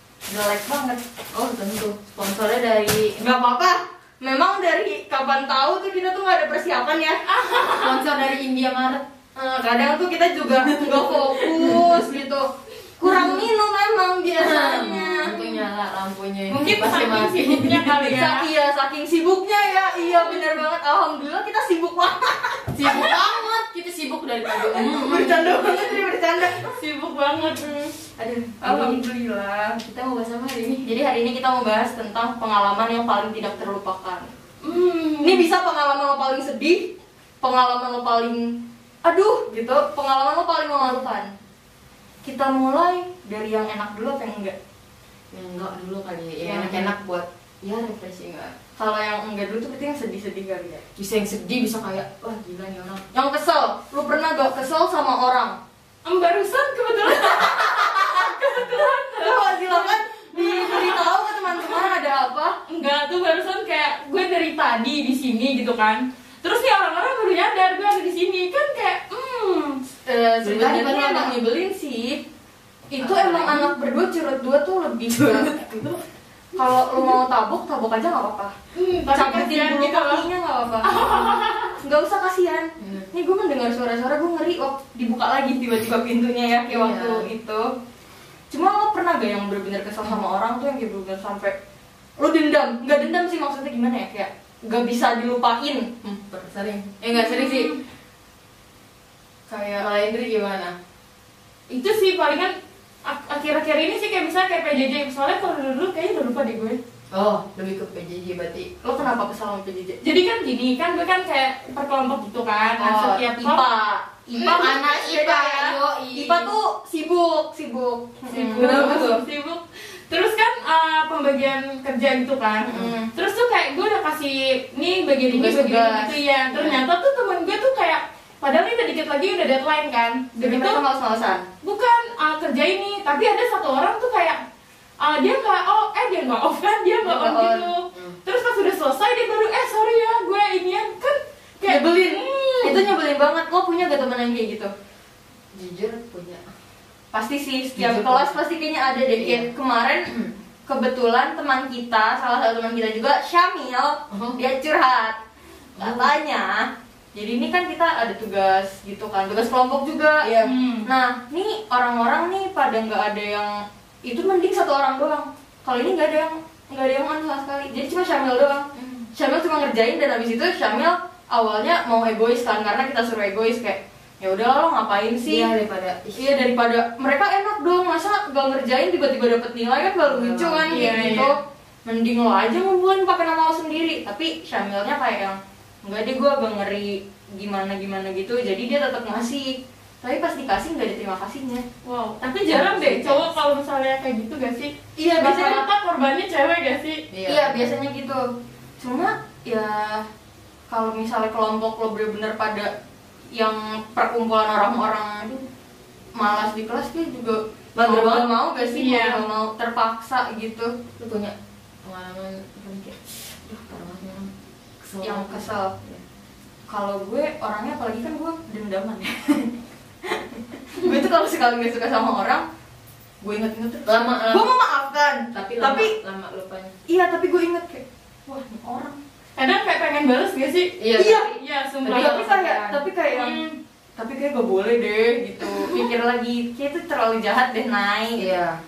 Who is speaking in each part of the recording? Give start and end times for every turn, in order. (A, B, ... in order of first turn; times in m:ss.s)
0:00.3-0:01.0 A
0:01.3-0:03.1 B
0:03.1-0:07.3 A
0:07.3-0:08.0 C
0:07.7-0:09.0 B
0:09.3-0:12.5 A
0:10.5-0:12.0 B
0:13.0-0:15.4 A
0:13.0-0:13.4 B
0:14.4-0:17.9 B
0:16.5-0:18.5 C
0:17.9-0:23.2 A
0:22.8-0:26.0 B
0:24.5-0:26.8 A
0:26.4-0:27.6 C
0:27.5-0:29.8 A
0:28.2-0:29.0 B
0:29.8-0:30.8 B
0:30.8-0:34.3 A
0:34.6-0:35.5 C
0:35.2-0:36.9 A
0:37.4-0:38.5 A
0:39.0-0:41.3 A
0:42.2-0:44.6 A
0:45.3-0:48.5 B
0:46.4-0:46.9 A
0:48.8-0:50.9 A
0:51.0-0:53.0 B
0:53.0-0:55.6 A
0:56.0-1:01.1 C
0:57.6-1:02.6 A
1:02.7-1:09.8 C
1:10.0-1:12.2 A
1:10.4-1:11.3 B
1:12.9-1:15.6 A
1:13.0-1:13.7 B
1:15.2-1:16.0 B
1:16.5-1:18.5 A
1:18.7-1:20.3 C
1:19.1-1:20.9 A
1:20.8-1:21.8 C
1:21.8-1:27.7 A
1:22.8-1:23.1 B
1:26.7-1:27.3 B
1:28.5-1:31.5 A
1:32.2-1:36.1 A
1:36.1-1:37.0 B
1:37.0-1:37.7 A
1:37.1-1:37.7 C
1:39.5-1:39.9 A
1:39.8-1:40.7 B
1:41.7-1:42.5 C
1:43.0-1:46.8 C
1:47.1-1:48.7 B
1:48.8-1:50.0 A
1:50.0-1:53.6 C
1:52.8-1:59.2 A
1:54.4-1:56.5 B
1:58.3-2:10.8 C
1:58.5-1:59.2 B
2:02.6-2:03.1 A
2:05.3-2:06.7 A
2:10.4-2:11.4 A
2:11.6-2:14.4 C
2:15.0-2:22.8 C
2:17.0-2:17.6 A
2:17.2-2:18.2 B
2:21.6-2:24.7 A
2:25.5-2:26.5 B
2:27.1-2:30.1 A
2:27.8-2:28.4 B
2:29.1-2:29.5 B
2:30.0-2:30.3 B
2:30.7-2:35.2 A
2:34.1-2:34.4 B
2:35.8-2:40.3 A
2:35.8-2:36.1 B
2:40.2-2:40.5 B
2:40.4-2:40.8 C
2:40.8-2:55.5 A
2:48.8-2:49.0 B
2:55.2-2:56.3 B
2:56.2-3:11.6 A
3:00.0-3:01.3 B
3:00.7-3:01.3 C
3:11.8-3:17.0 C
3:12.5-3:13.3 B
3:15.0-3:15.6 A
3:17.1-3:17.7 B
3:17.2-3:18.2 A
3:18.8-3:20.0 A
3:20.7-3:22.7 A
3:23.3-3:25.3 A
3:26.2-3:30.8 A
3:27.8-3:29.2 C
3:31.0-3:36.0 B
3:35.0-3:35.7 A
3:36.7-3:39.5 A
3:40.0-3:42.4 A
3:43.2-3:45.9 A
3:43.8-3:44.5 B
3:45.3-3:46.7 B
3:46.9-3:49.0 A
3:49.4-3:50.7 C
3:50.8-3:52.8 B
3:50.9-3:51.3 A
3:51.3-3:52.4 C
3:51.9-3:53.4 A
3:53.1-3:53.6 C
3:54.0-3:58.4 A
3:58.2-3:58.6 B